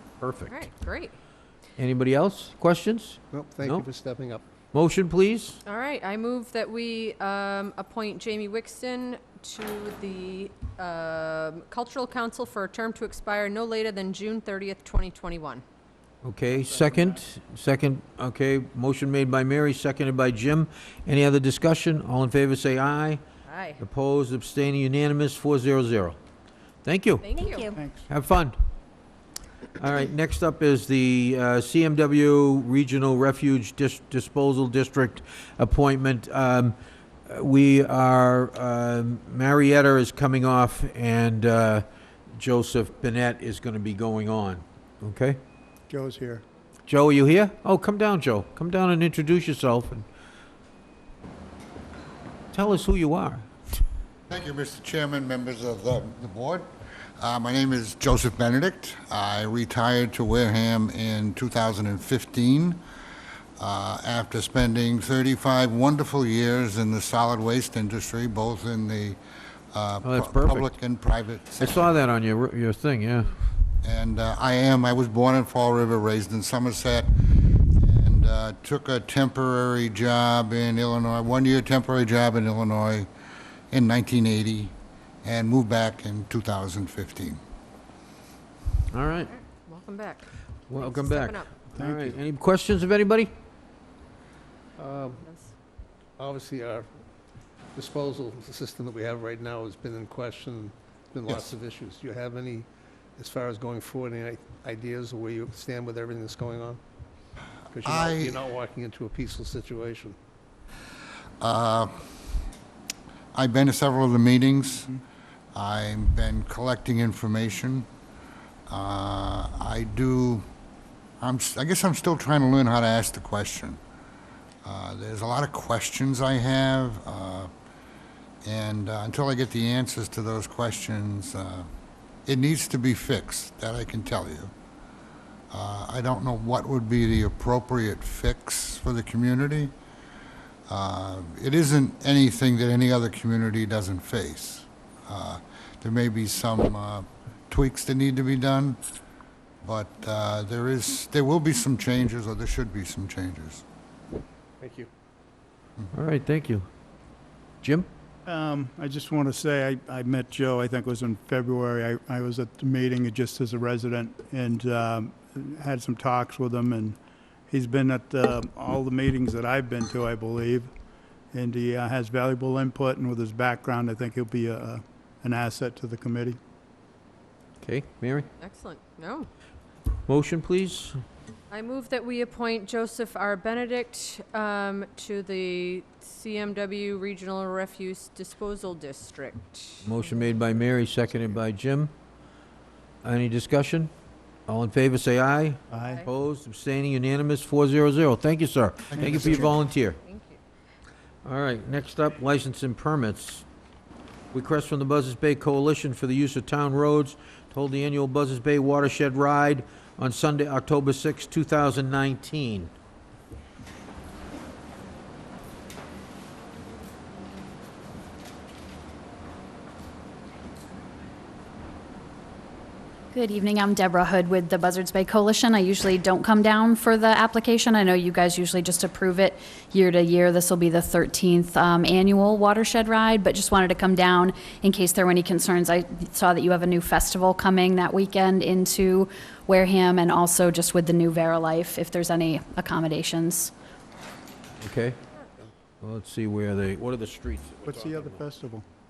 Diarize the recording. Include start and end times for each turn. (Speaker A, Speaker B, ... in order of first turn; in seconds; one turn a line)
Speaker A: 0.2-0.7
Speaker B: 0.5-1.1
Speaker A: 1.8-3.9
Speaker C: 3.3-4.4
Speaker A: 4.7-5.6
Speaker B: 5.7-15.6
Speaker A: 16.2-23.2
Speaker D: 16.5-17.2
Speaker B: 23.5-23.8
Speaker A: 23.8-26.2
Speaker A: 26.9-27.3
Speaker B: 27.2-27.8
Speaker E: 27.4-27.8
Speaker D: 27.7-28.1
Speaker A: 28.1-28.6
Speaker A: 29.8-36.8
Speaker A: 37.3-45.4
Speaker D: 45.9-46.4
Speaker A: 46.9-50.0
Speaker A: 52.5-53.5
Speaker F: 54.3-56.7
Speaker F: 57.2-62.8
Speaker F: 63.6-69.2
Speaker F: 69.7-71.8
Speaker A: 70.0-70.7
Speaker A: 71.6-73.4
Speaker F: 73.8-77.1
Speaker F: 77.7-83.1
Speaker F: 83.7-87.4
Speaker A: 88.9-89.3
Speaker B: 89.3-91.6
Speaker A: 90.7-93.3
Speaker D: 91.8-92.2
Speaker C: 94.8-95.2
Speaker B: 95.1-95.5
Speaker C: 96.2-96.9
Speaker C: 97.8-106.8
Speaker C: 107.7-110.2
Speaker F: 107.8-108.4
Speaker F: 111.4-112.0
Speaker F: 113.3-115.0
Speaker F: 115.5-117.9
Speaker F: 118.7-120.5
Speaker F: 121.2-123.8
Speaker F: 124.7-127.5
Speaker F: 128.4-131.7
Speaker F: 132.3-134.5
Speaker F: 135.5-139.7
Speaker F: 140.7-148.8
Speaker F: 149.6-153.6
Speaker C: 154.6-154.9
Speaker A: 155.9-156.7
Speaker A: 157.6-157.9
Speaker D: 158.3-167.0
Speaker D: 167.5-170.7
Speaker D: 171.3-176.4
Speaker A: 177.6-178.3
Speaker B: 178.4-179.3
Speaker A: 180.1-181.0
Speaker B: 181.5-189.9
Speaker A: 189.8-191.9
Speaker A: 193.0-193.9
Speaker A: 194.5-200.0
Speaker D: 195.7-196.0
Speaker D: 199.0-199.5
Speaker F: 199.0-199.3
Speaker B: 200.0-200.4
Speaker A: 201.2-203.5
Speaker A: 204.3-212.7
Speaker E: 223.1-243.5
Speaker A: 244.6-245.0
Speaker A: 245.8-248.2
Speaker D: 247.7-248.7